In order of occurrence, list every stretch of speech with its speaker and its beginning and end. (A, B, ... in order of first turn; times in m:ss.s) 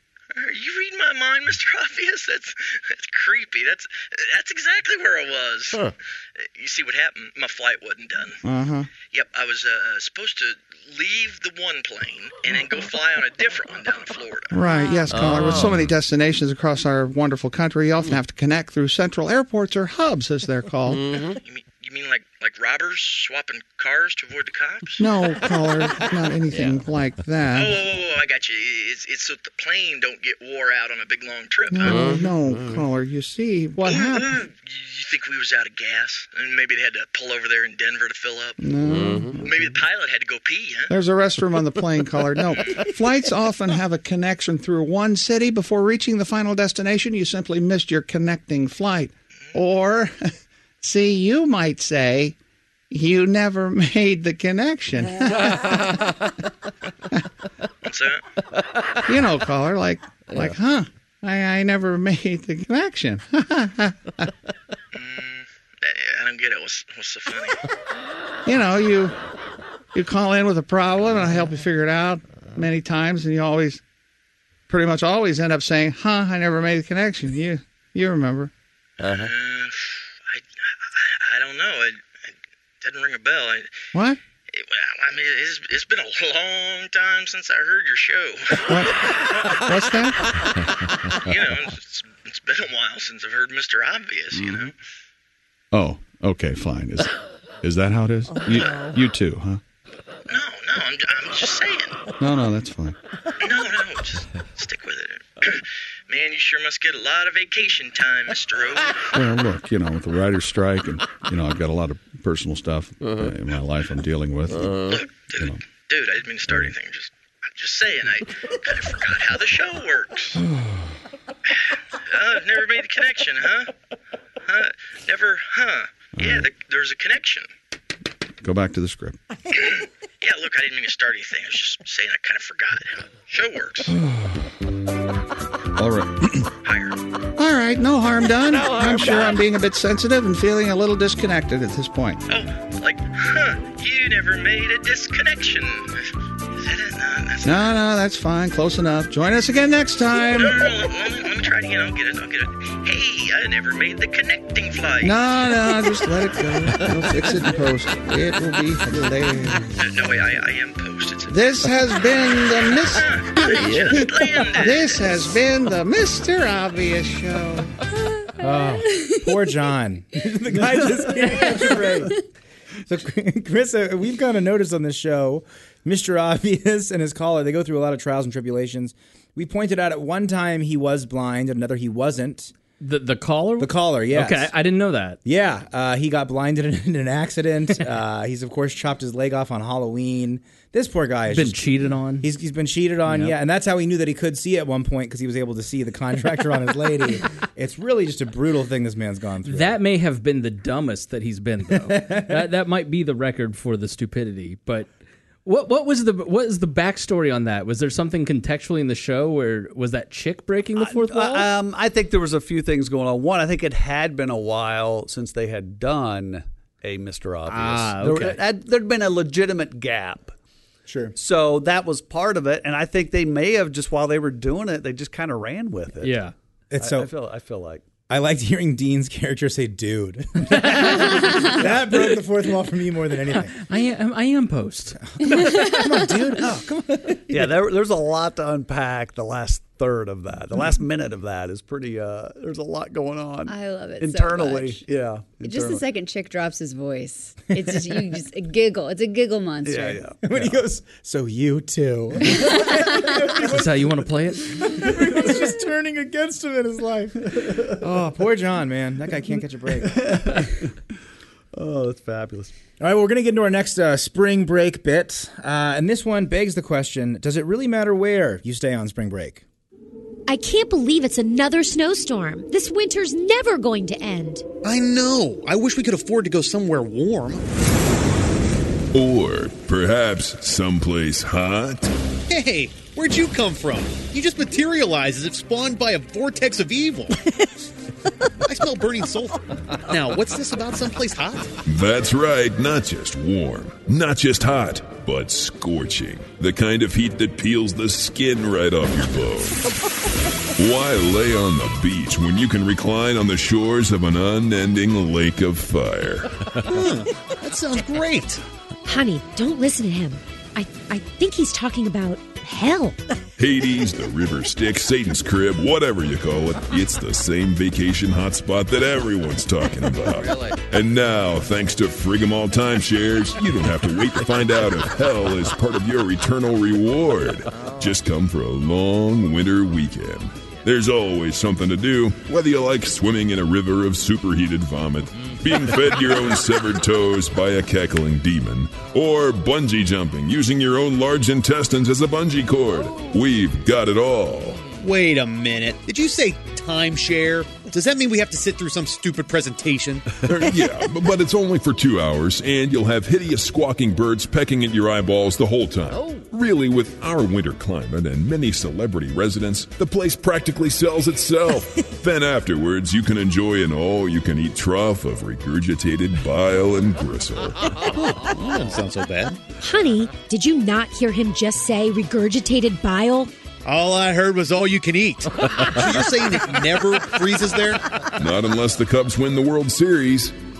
0:00.4-0:08.4 A
0:08.4-0:08.9 B
0:09.0-0:14.6 A
0:14.5-0:21.1 B
0:21.3-0:25.1 A
0:25.0-0:27.8 B
0:27.5-0:32.2 A
0:31.7-0:34.3 B
0:33.8-0:38.6 A
0:38.6-0:39.4 B
0:39.4-0:40.9 A
0:40.9-0:50.2 B
0:50.8-0:52.3 B
0:52.9-0:55.9 B
0:57.8-0:58.2 A
0:59.1-1:04.3 B
1:04.9-1:07.6 A
1:08.4-1:09.2 B
1:09.9-1:13.8 B
1:14.7-1:18.5 B
1:19.0-1:23.8 A
1:24.5-1:28.9 A
1:28.7-1:30.2 B
1:31.2-1:34.7 A
1:35.7-1:37.1 C
1:37.6-1:39.6 C
1:40.3-1:42.0 A
1:42.2-1:43.0 C
1:43.4-1:49.0 A
1:49.1-1:54.8 C
1:54.8-2:00.4 A
1:55.3-1:55.6 C
2:00.4-2:00.9 C
2:01.6-2:03.7 A
2:04.4-2:07.5 A
2:06.1-2:06.5 C
2:08.4-2:09.2 C
2:09.5-2:13.9 A
2:13.8-2:14.5 C
2:15.8-2:16.4 C
2:16.6-2:17.0 A
2:17.4-2:22.2 B
2:22.3-2:26.0 A
2:26.6-2:27.8 A
2:27.4-2:30.8 B
2:30.3-2:35.2 A
2:35.0-2:39.7 B
2:39.8-2:41.5 A
2:41.3-2:43.9 B
2:42.3-2:45.4 A
2:44.5-2:47.7 B
2:48.4-2:52.2 D
2:51.1-2:51.9 E
2:52.9-3:02.5 D
3:02.8-3:05.2 E
3:03.6-3:04.5 D
3:05.2-3:19.8 D
3:11.3-3:12.3 E
3:13.1-3:13.3 E
3:19.5-3:24.9 E
3:21.8-3:22.4 D
3:25.4-3:31.5 E
3:30.8-3:40.3 F
3:37.5-3:38.4 E
3:40.9-3:41.1 D
3:41.2-3:46.2 F
3:46.0-3:46.3 E
3:46.7-3:47.1 D
3:46.8-3:47.8 F
3:48.1-3:53.5 D
3:50.6-3:51.4 E
3:53.6-3:55.0 E
3:55.2-3:57.6 D
3:57.3-4:05.8 F
4:03.5-4:04.8 G
4:05.4-4:10.0 G
4:09.6-4:10.2 F
4:10.2-4:14.0 D
4:12.3-4:13.2 G
4:13.4-4:15.1 E
4:14.6-4:20.1 D
4:19.9-4:20.5 F
4:21.6-4:22.5 F
4:22.8-4:29.4 D
4:30.3-4:34.4 H
4:34.6-4:37.4 I
4:38.9-4:41.9 J
4:42.3-4:47.2 I
4:48.4-4:51.5 I
4:51.6-4:59.6 J
5:00.6-5:06.3 J
5:06.6-5:08.4 I
5:08.8-5:13.0 H
5:13.4-5:44.6 J
5:44.7-5:50.1 I
5:50.2-6:07.6 J
6:07.9-6:09.4 I
6:09.6-6:13.3 H
6:13.6-6:17.8 I
6:18.2-6:20.3 J